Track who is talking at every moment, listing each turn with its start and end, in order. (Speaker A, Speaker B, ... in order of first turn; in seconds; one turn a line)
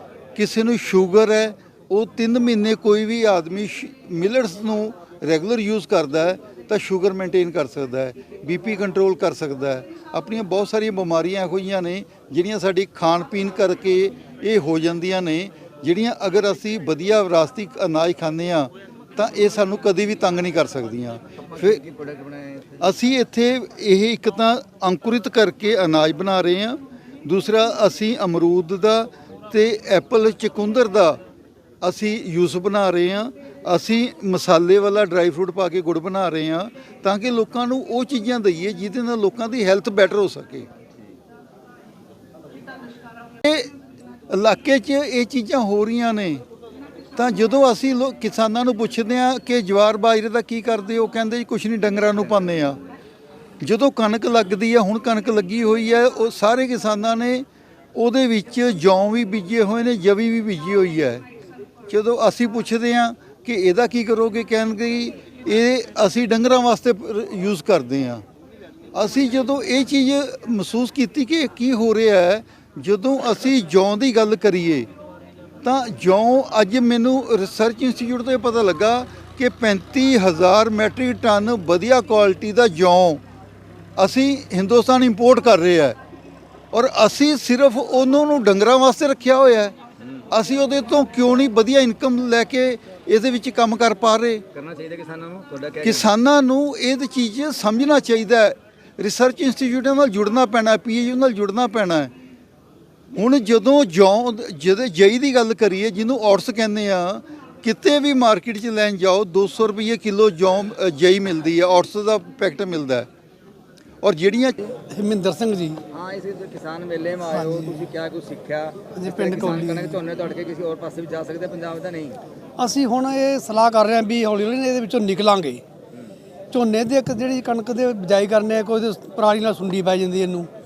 Speaker A: 0.3-21.9
Speaker B: 21.5-22.9
Speaker A: 22.8-31.2
Speaker A: 31.8-40.7
Speaker A: 44.3-46.4
Speaker A: 47.2-52.8
Speaker B: 52.1-52.6
Speaker A: 53.6-61.2
Speaker A: 61.9-68.2
Speaker A: 68.9-74.9
Speaker A: 75.6-83.2
Speaker A: 84.0-86.0
Speaker A: 86.7-89.7
Speaker A: 90.3-94.4
Speaker B: 94.5-96.1
Speaker A: 95.8-102.1
Speaker A: 103.1-113.1
Speaker A: 114.0-114.6
Speaker C: 114.9-115.8
Speaker B: 115.9-122.2
Speaker C: 117.3-117.8
Speaker C: 119.0-120.0
Speaker C: 122.6-125.6
Speaker C: 126.5-130.5